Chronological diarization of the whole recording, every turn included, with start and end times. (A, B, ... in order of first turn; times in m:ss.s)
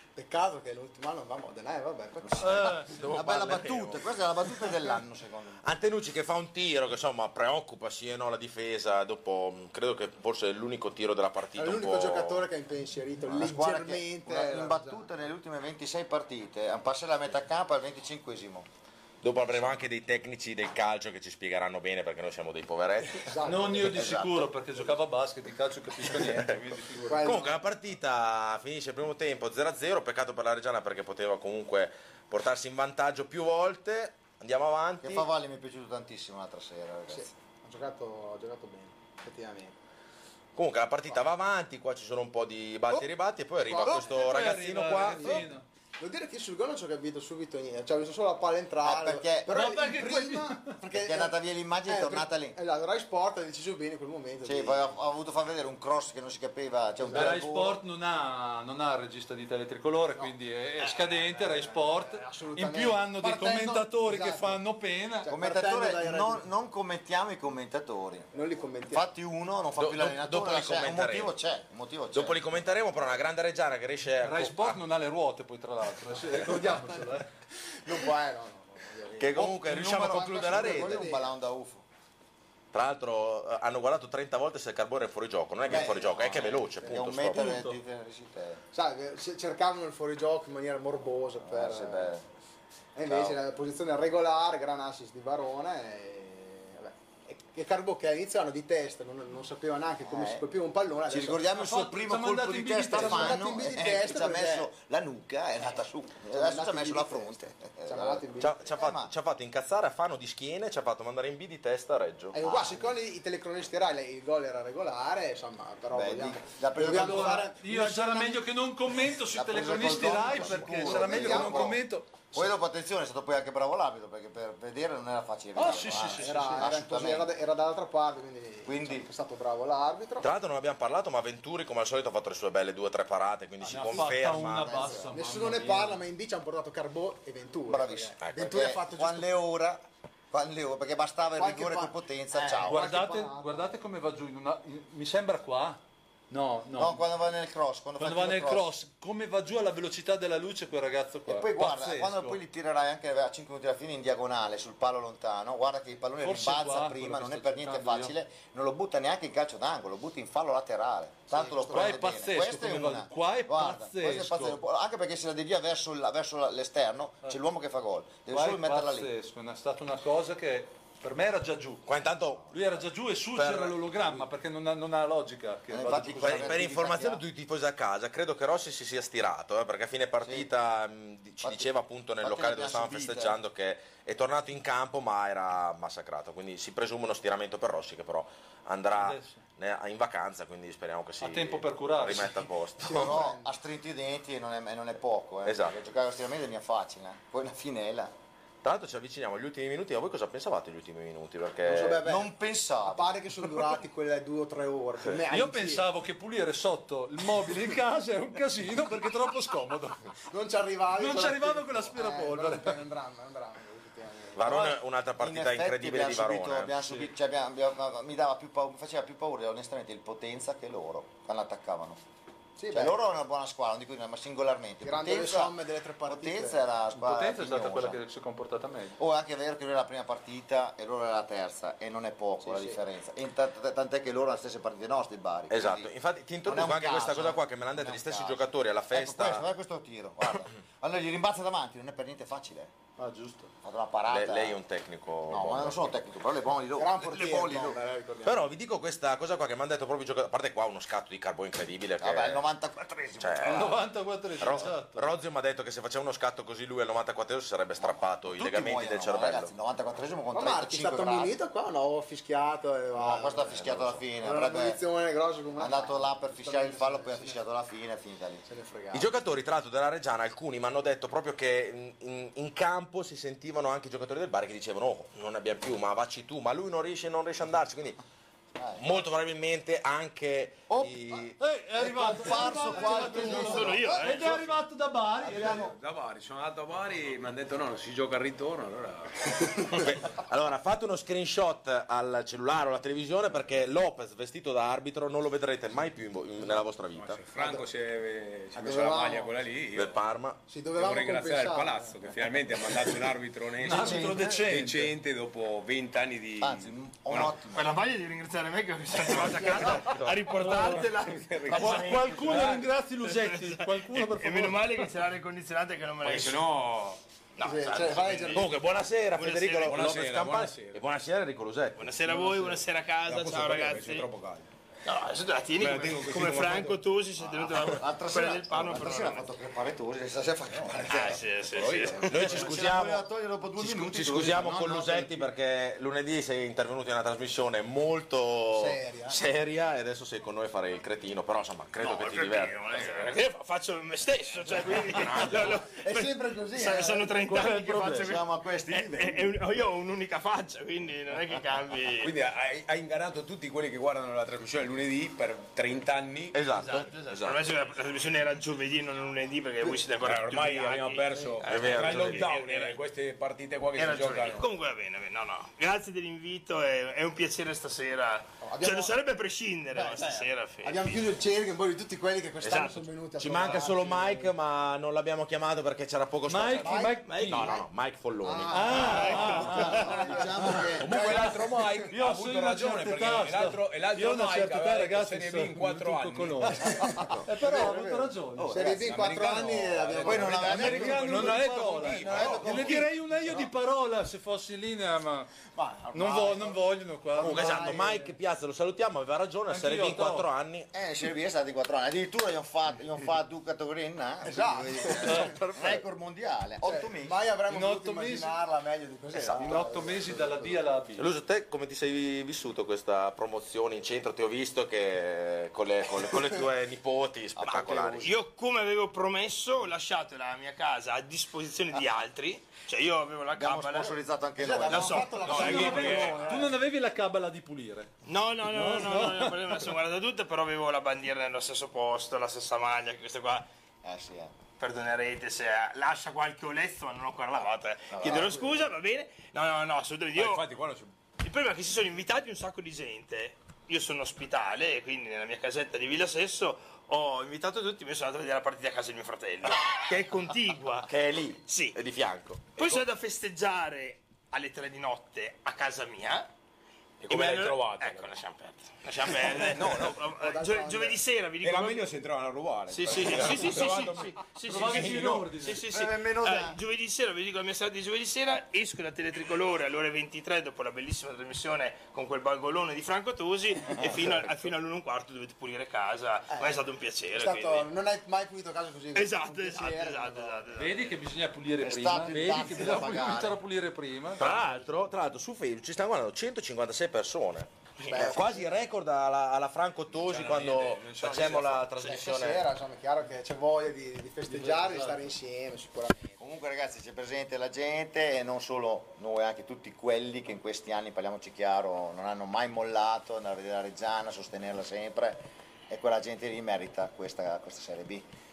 0:00.2-0:02.9 A
0:02.2-0:05.6 B
0:02.4-0:02.9 C
0:02.9-0:04.1 D
0:05.6-0:12.5 D
0:11.6-0:15.1 A
0:13.3-0:18.7 B
0:19.2-0:23.4 D
0:23.2-0:24.0 A
0:23.4-0:27.4 C
0:23.8-0:24.6 B
0:26.1-0:35.3 D
0:27.1-0:27.6 A
0:35.0-0:37.3 B
0:37.1-0:39.8 A
0:40.6-0:45.5 D
0:43.6-0:44.4 A
0:44.1-0:45.6 C
0:45.0-0:54.9 A
0:48.8-0:49.6 B
0:49.5-0:50.8 C
0:50.9-0:52.6 B
0:54.4-0:57.8 B
0:57.0-0:57.3 A
0:57.1-1:05.3 C
1:00.2-1:04.6 A
1:05.2-1:06.4 A
1:05.3-1:12.5 B
1:08.3-1:09.0 A
1:09.8-1:11.3 D
1:12.1-1:14.8 D
1:14.2-1:17.3 C
1:16.5-1:17.0 A
1:17.8-1:21.3 A
1:19.2-1:21.1 D
1:19.4-1:21.8 B
1:22.7-1:27.8 D
1:25.7-1:28.6 B
1:25.7-1:26.1 A
1:28.7-1:32.2 A
1:31.4-1:32.2 B
1:33.0-1:41.4 A
1:33.1-1:33.4 B
1:40.0-1:40.4 B
1:41.1-1:49.1 B
1:41.5-1:43.5 C
1:42.9-1:44.7 A
1:46.3-1:48.6 A
1:48.4-1:52.5 D
1:52.3-1:58.4 A
1:52.4-1:52.9 B
1:55.9-1:57.5 B
1:56.9-2:02.3 C
1:59.3-2:01.8 B
2:00.3-2:01.8 A
2:02.3-2:07.3 B
2:05.6-2:06.7 C
2:05.8-2:10.3 A
2:08.7-2:09.1 B
2:10.2-2:15.1 D
2:13.6-2:16.0 C
2:14.9-2:19.3 A
2:17.7-2:23.0 B
2:18.2-2:18.5 D
2:21.4-2:23.6 A
2:22.6-2:27.0 C
2:26.8-2:28.7 B
2:28.0-2:32.4 C
2:31.3-2:49.1 B
2:36.2-2:38.1 C
2:41.3-2:42.0 A
2:41.7-2:44.6 C
2:48.3-2:51.8 C
2:51.9-2:52.7 D
2:52.5-2:56.6 C
2:53.4-2:53.8 D
2:55.7-2:57.2 B
2:56.2-3:13.2 D
3:00.2-3:00.5 B
3:01.4-3:03.4 B
3:09.0-3:09.4 C
3:11.2-3:12.5 C
3:12.8-3:13.5 A
3:12.8-3:18.1 B
3:15.4-3:15.7 D
3:18.6-3:22.0 D
3:21.6-3:22.3 A
3:22.0-3:23.5 B
3:22.9-3:25.9 A
3:25.3-3:30.1 C
3:30.3-3:34.7 A
3:31.0-3:32.8 C
3:34.4-3:36.7 D
3:34.5-3:42.0 B
3:42.6-3:43.0 A
3:42.7-3:48.0 B
3:44.8-3:46.6 A
3:46.9-3:49.0 C
3:49.0-3:55.9 B
3:52.4-3:52.8 A
3:55.5-3:59.4 D
3:56.4-4:02.7 B
4:03.0-4:03.5 C
4:03.6-4:04.6 B
4:04.1-4:05.8 D
4:05.3-4:07.8 B
4:06.8-4:08.5 A
4:08.2-4:12.4 D
4:12.0-4:13.7 B
4:13.2-4:13.8 D
4:13.4-4:15.1 C
4:14.4-4:19.5 D
4:17.8-4:21.3 B
4:20.3-4:23.7 A
4:22.9-4:24.8 B
4:23.6-4:24.0 D
4:24.2-4:27.4 A
4:25.6-4:28.5 B
4:28.5-4:29.2 A
4:28.9-4:38.0 D
4:38.6-4:38.9 B
4:38.8-4:41.4 D
4:40.7-4:41.2 B
4:41.4-4:45.7 C
4:41.8-4:44.4 B
4:42.7-4:44.0 A
4:43.3-4:44.3 E
4:45.2-4:45.7 B
4:45.3-4:49.8 F
4:49.7-4:57.2 D
4:56.4-5:00.0 F
4:58.6-4:59.4 A
4:59.7-5:00.4 D
5:00.5-5:02.0 A
5:00.7-5:07.4 F
5:03.6-5:04.9 C
5:03.8-5:04.4 B
5:06.4-5:07.8 B
5:07.5-5:11.2 E
5:09.3-5:09.7 A
5:10.3-5:12.6 F
5:11.5-5:12.7 B
5:11.5-5:14.9 C
5:13.0-5:16.4 E
5:16.0-5:17.0 F
5:17.4-5:18.5 E
5:17.4-5:18.6 A
5:18.3-5:21.8 D
5:19.2-5:19.9 E
5:19.6-5:20.8 F
5:21.8-5:24.1 E
5:22.0-5:24.5 F
5:24.8-5:29.3 E
5:25.6-5:26.8 F
5:27.2-5:35.2 B
5:30.9-5:32.3 E
5:31.5-5:32.3 F
5:32.0-5:33.1 D
5:33.6-5:34.7 F
5:33.9-5:42.9 D
5:38.5-5:39.2 A
5:41.8-5:52.1 E
5:45.8-5:47.2 A
5:47.3-5:49.4 B
5:52.0-5:56.6 F
5:56.3-5:57.4 D
5:56.5-6:02.8 E
5:59.7-6:04.5 F
6:01.4-6:02.3 D
6:03.8-6:11.1 E
6:08.4-6:08.9 A
6:09.7-6:14.3 A
6:12.4-6:19.3 D
6:16.3-6:17.5 C
6:16.6-6:17.7 A
6:17.0-6:17.6 E
6:18.2-6:21.6 A
6:18.5-6:20.0 C
6:18.9-6:19.7 E
6:19.1-6:21.3 B
6:20.8-6:26.6 F
6:21.9-6:28.6 C
6:26.6-6:27.9 A
6:27.0-6:28.9 B
6:28.5-6:31.0 A
6:28.5-6:32.8 F
6:30.0-6:31.4 B
6:30.5-6:35.3 C
6:31.8-6:32.5 D
6:31.9-6:32.9 B
6:32.2-6:32.5 A
6:35.6-6:36.6 A
6:35.9-6:37.8 C
6:37.2-6:38.2 A
6:37.2-6:40.7 D
6:39.5-6:40.3 C
6:40.7-6:47.2 B
6:44.2-6:45.4 A
6:45.0-6:45.3 C
6:45.3-6:45.8 D
6:46.6-6:50.6 A
6:47.5-6:48.3 C
6:49.1-6:49.6 D
6:49.4-6:51.1 C
6:51.0-6:58.1 D
6:57.4-6:58.1 B
6:58.0-7:04.0 E
7:03.3-7:05.2 B
7:04.4-7:06.6 A
7:04.6-7:06.1 E
7:05.2-7:06.4 F
7:05.3-7:07.9 C
7:08.0-7:13.5 E
7:08.5-7:09.6 C
7:13.8-7:14.3 B
7:14.6-7:20.4 E
7:17.9-7:18.5 B
7:20.1-7:20.9 F
7:21.2-7:30.9 E
7:30.9-7:32.8 D
7:31.5-7:31.8 E
7:32.6-7:36.3 E
7:37.0-7:38.1 F
7:37.1-7:41.9 E
7:39.1-7:40.1 F
7:40.2-7:41.0 A
7:41.4-7:45.2 F
7:42.7-7:57.7 E
7:44.4-7:45.6 C
7:45.6-7:46.6 B
7:57.2-8:00.5 A
7:59.0-8:01.0 E
8:00.6-8:04.3 C
8:01.6-8:03.4 B
8:04.2-8:12.4 D
8:07.8-8:08.2 E
8:07.8-8:08.6 A
8:09.9-8:11.9 F
8:11.8-8:16.2 A
8:14.3-8:15.1 C
8:16.2-8:28.1 B